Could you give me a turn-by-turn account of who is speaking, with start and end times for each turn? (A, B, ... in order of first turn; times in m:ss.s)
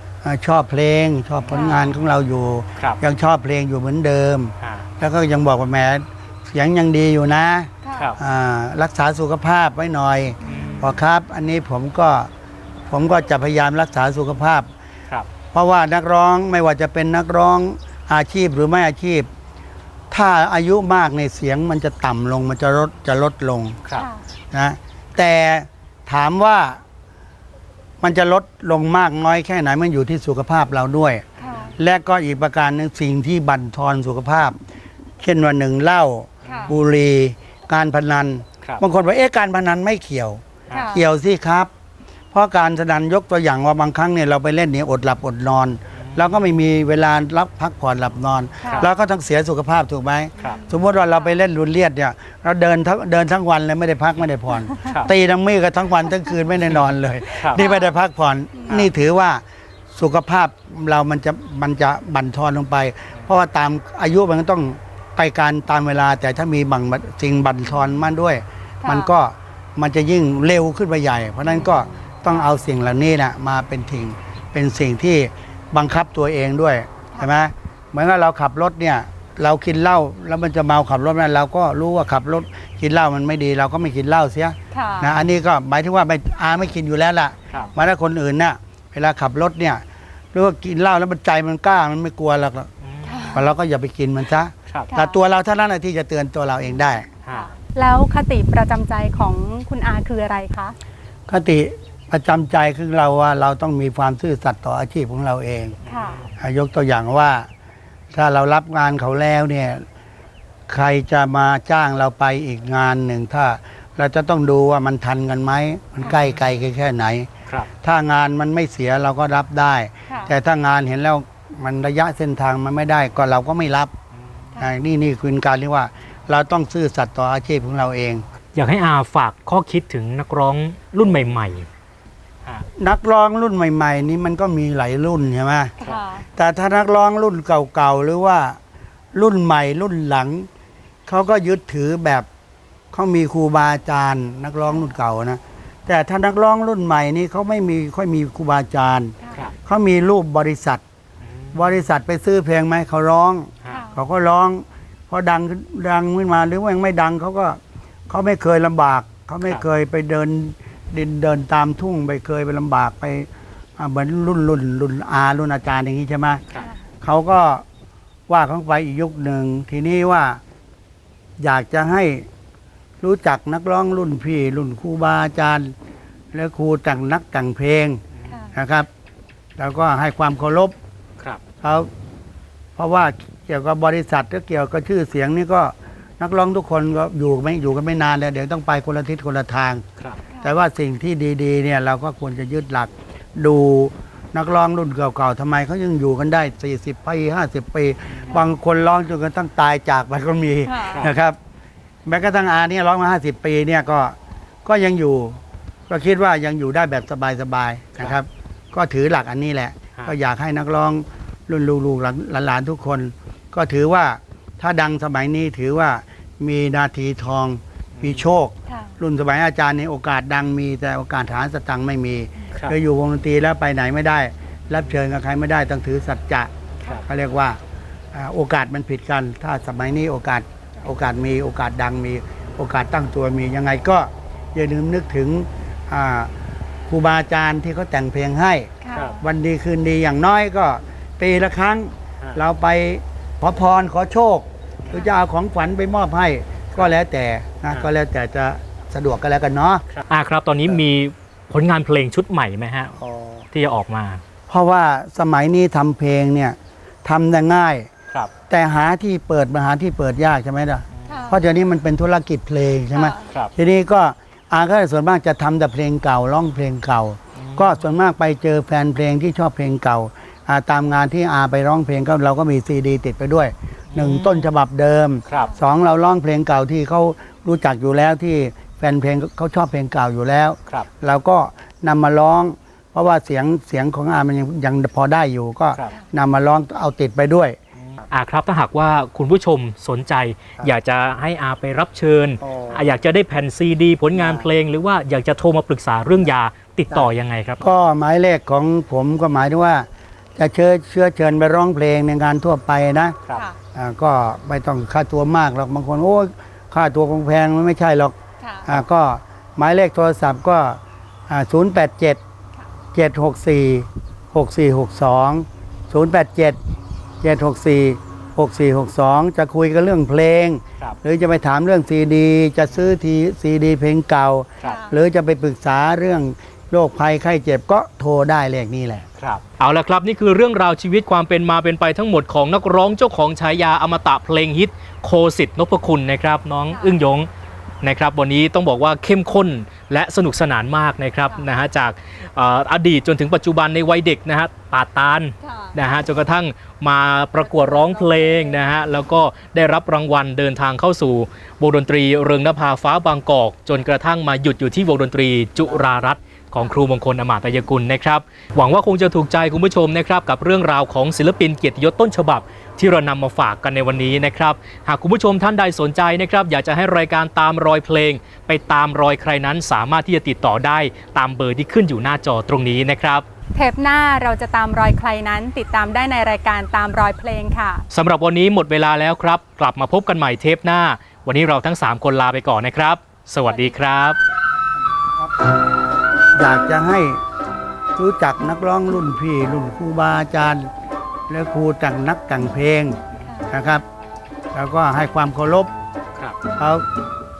0:00.2-0:12.3 A
0:01.4-0:01.8 B
0:01.5-0:01.9 C
0:04.6-0:04.9 B
0:07.8-0:08.1 C
0:10.4-0:10.8 B
0:10.5-0:10.9 C
0:12.9-0:14.7 A
0:15.5-0:19.3 A
0:20.1-0:23.8 A
0:23.9-0:24.2 C
0:24.5-0:26.8 A
0:28.0-0:34.6 A
0:31.4-0:31.7 C
0:35.2-0:41.7 A
0:36.4-0:36.8 B
0:36.5-0:36.7 C
0:40.7-0:41.0 C
0:42.3-1:32.7 A
0:46.0-0:46.5 B
0:48.6-0:48.9 C
0:50.4-0:50.8 C
0:54.8-0:55.1 B
0:57.4-0:57.6 B
0:57.5-0:57.9 C
0:58.6-0:58.8 C
1:08.8-1:09.1 C
1:24.7-1:25.1 C
1:32.8-1:33.3 B
1:33.0-1:33.5 C
1:33.3-1:37.1 A
1:34.7-1:34.9 B
1:34.9-1:35.2 C
1:37.2-1:37.5 B
1:37.3-1:40.8 C
1:41.3-1:45.8 A
1:45.8-1:46.3 B
1:45.9-1:46.2 C
1:46.4-1:47.5 A
1:48.1-1:49.8 A
1:50.7-1:57.3 A
1:56.0-1:56.5 B
1:57.8-2:03.9 A
2:00.1-2:00.3 C
2:04.6-2:08.2 A
2:08.5-2:11.7 B
2:12.8-2:15.7 A
2:15.8-2:16.1 B
2:15.8-2:16.2 C
2:16.4-2:18.6 A
2:19.1-2:20.5 A
2:21.1-2:22.3 A
2:22.9-2:30.8 A
2:31.2-2:31.8 B
2:31.5-2:46.4 A
2:33.6-2:33.9 B
2:47.0-2:47.6 A
2:48.3-2:50.4 A
2:51.4-2:52.2 A
2:53.0-2:55.7 A
2:56.3-2:58.0 A
2:58.5-2:58.9 A
2:59.6-3:00.8 A
3:01.6-3:01.9 A
3:02.8-3:09.8 A
3:10.4-3:21.4 A
3:20.6-3:21.0 C
3:20.8-3:21.1 B
3:22.1-3:46.5 A
3:38.0-3:38.3 B
3:38.7-3:38.9 C
3:47.0-3:47.6 A
3:48.1-3:56.3 A
3:56.9-4:09.8 A
3:58.8-3:59.2 C
3:58.9-3:59.2 B
4:09.9-4:13.0 B
4:13.0-4:13.4 A
4:13.5-4:14.2 B
4:14.5-4:17.9 A
4:18.5-4:47.6 A
4:21.0-4:21.2 B
4:21.1-4:21.4 C
4:22.9-4:23.3 C
4:23.3-4:23.5 B
4:27.4-4:27.8 B
4:33.9-4:34.5 B
4:35.3-4:35.6 B
4:48.0-4:57.7 B
4:52.4-4:52.9 A
4:54.2-4:54.5 A
4:56.9-5:03.2 A
5:03.8-5:08.1 A
5:08.4-5:08.7 C
5:08.7-5:12.2 A
5:12.9-5:16.6 A
5:17.2-5:29.1 A
5:24.6-5:25.0 C
5:29.2-5:37.3 B
5:37.8-6:13.2 B
5:45.4-5:45.8 C
5:47.5-5:48.4 C
6:13.6-6:17.8 C
6:17.9-6:24.2 B
6:23.5-6:23.8 C
6:26.3-6:27.2 A
6:28.0-6:30.7 A
6:31.3-6:33.0 A
6:33.2-6:33.5 C
6:33.5-6:33.8 A
6:34.5-6:35.7 A
6:36.6-6:36.8 A